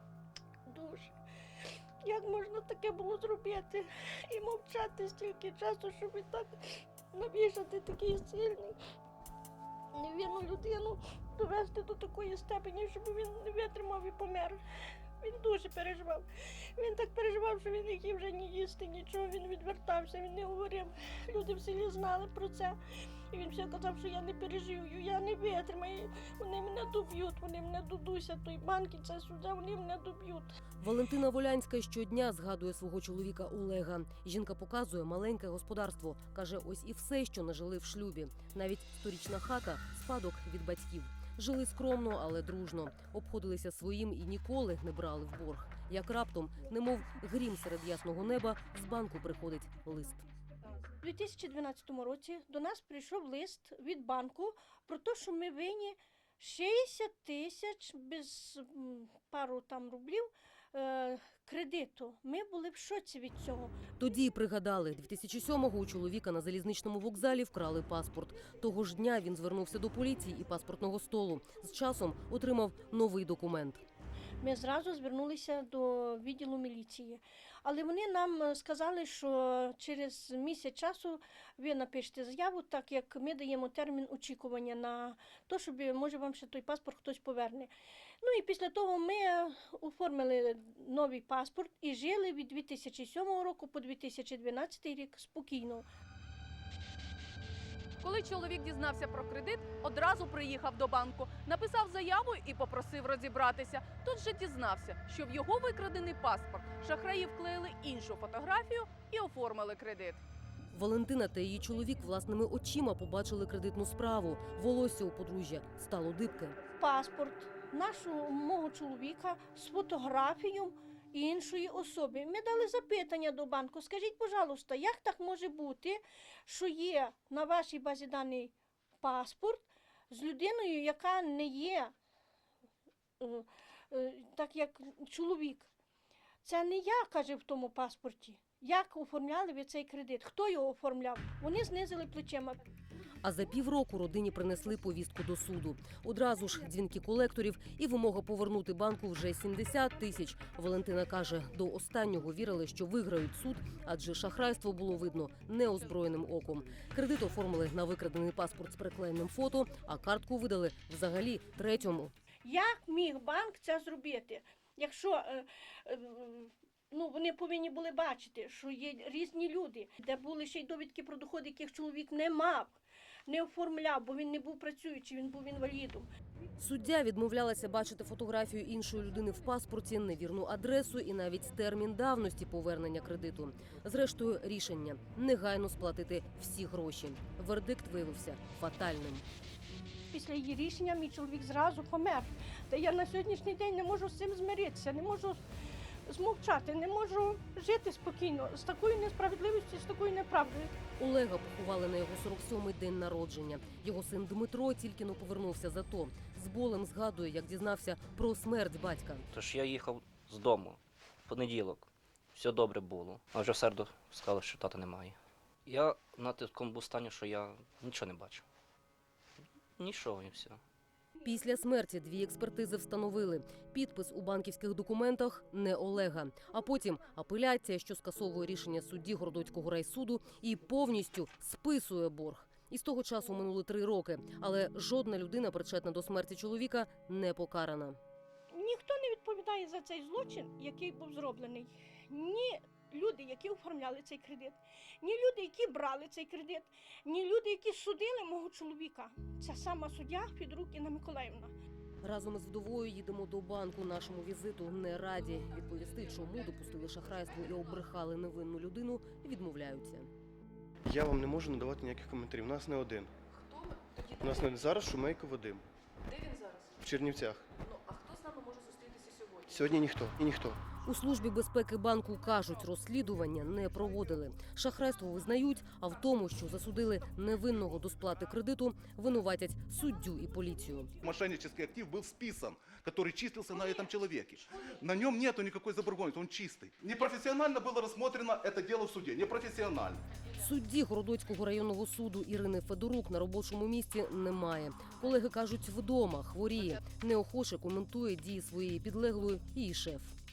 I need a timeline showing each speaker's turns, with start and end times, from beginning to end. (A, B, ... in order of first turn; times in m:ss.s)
0:00.7-0:01.1 A
0:02.0-0:06.5 A
0:07.1-0:08.8 A
0:09.9-0:14.6 A
0:15.2-0:22.8 A
0:23.3-0:30.5 A
0:30.8-0:50.2 B
0:51.0-1:03.8 A
1:04.0-1:13.8 B
1:14.4-1:35.9 A
1:38.0-1:50.2 C
1:50.7-1:56.6 B
1:56.8-2:11.9 A
2:13.2-2:15.7 A
2:16.4-2:22.6 A
2:23.2-2:42.1 B
2:42.4-2:56.1 A
2:56.6-3:09.2 B
3:10.1-3:15.4 A
3:16.1-3:20.7 A
3:21.0-3:29.3 B
3:29.3-3:38.4 D
3:39.8-3:40.6 D
3:41.2-3:58.0 B
3:58.5-4:11.5 A
4:12.0-4:20.1 B
4:20.8-4:23.1 E
4:24.2-4:25.6 E
4:26.8-4:27.4 E
4:29.5-4:30.6 E
4:30.8-4:40.9 B
4:41.0-4:50.0 F
4:50.4-5:00.1 B